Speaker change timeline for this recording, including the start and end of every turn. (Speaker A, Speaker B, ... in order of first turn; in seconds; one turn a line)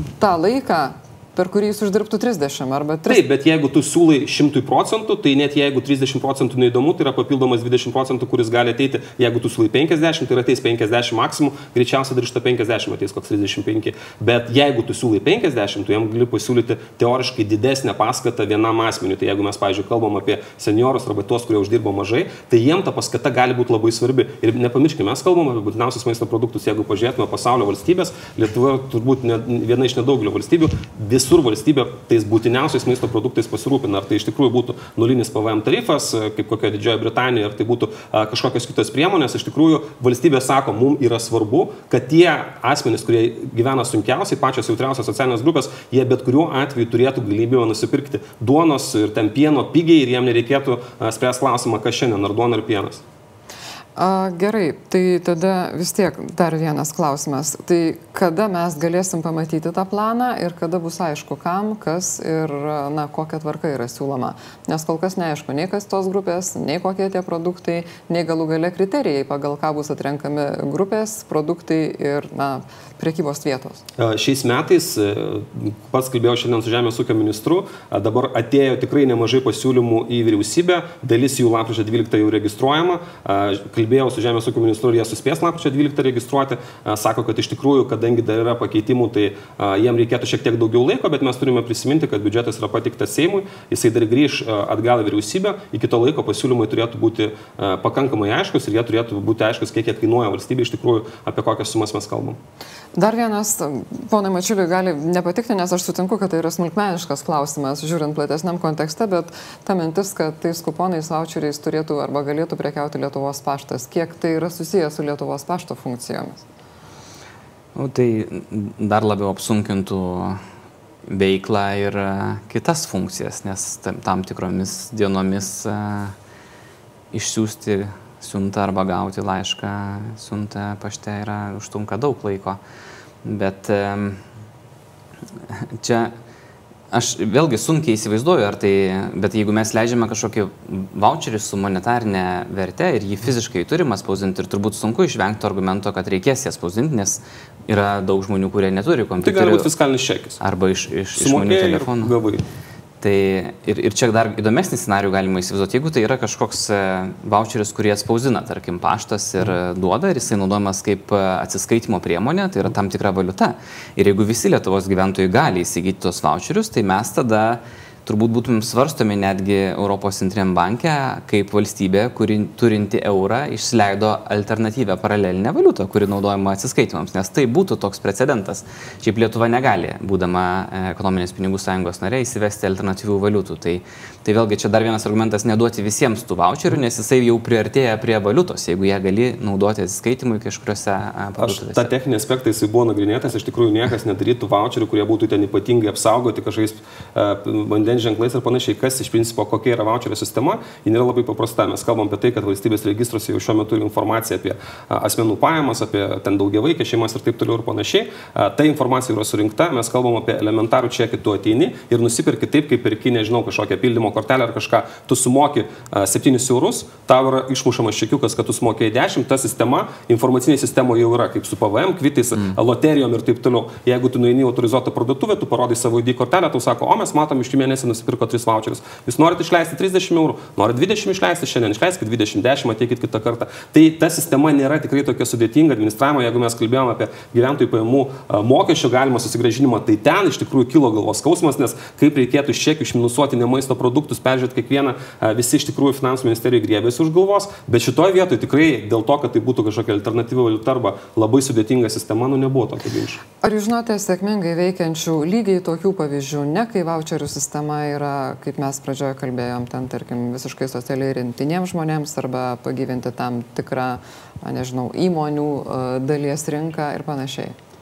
Speaker A: 0.2-3.2
Speaker B: 3.1-53.0
Speaker A: 54.0-73.8
Speaker B: 74.0-102.4
Speaker A: 103.0-116.4
Speaker C: 117.8-120.4
Speaker C: 121.1-126.2
Speaker C: 127.1-132.6
Speaker C: 133.2-134.2
Speaker C: 135.5-136.1
Speaker C: 136.9-149.7
Speaker B: 149.2-150.4
Speaker C: 150.4-152.1
Speaker B: 151.2-152.4
Speaker C: 153.0-191.9
Speaker B: 191.4-253.2
Speaker A: 253.4-267.6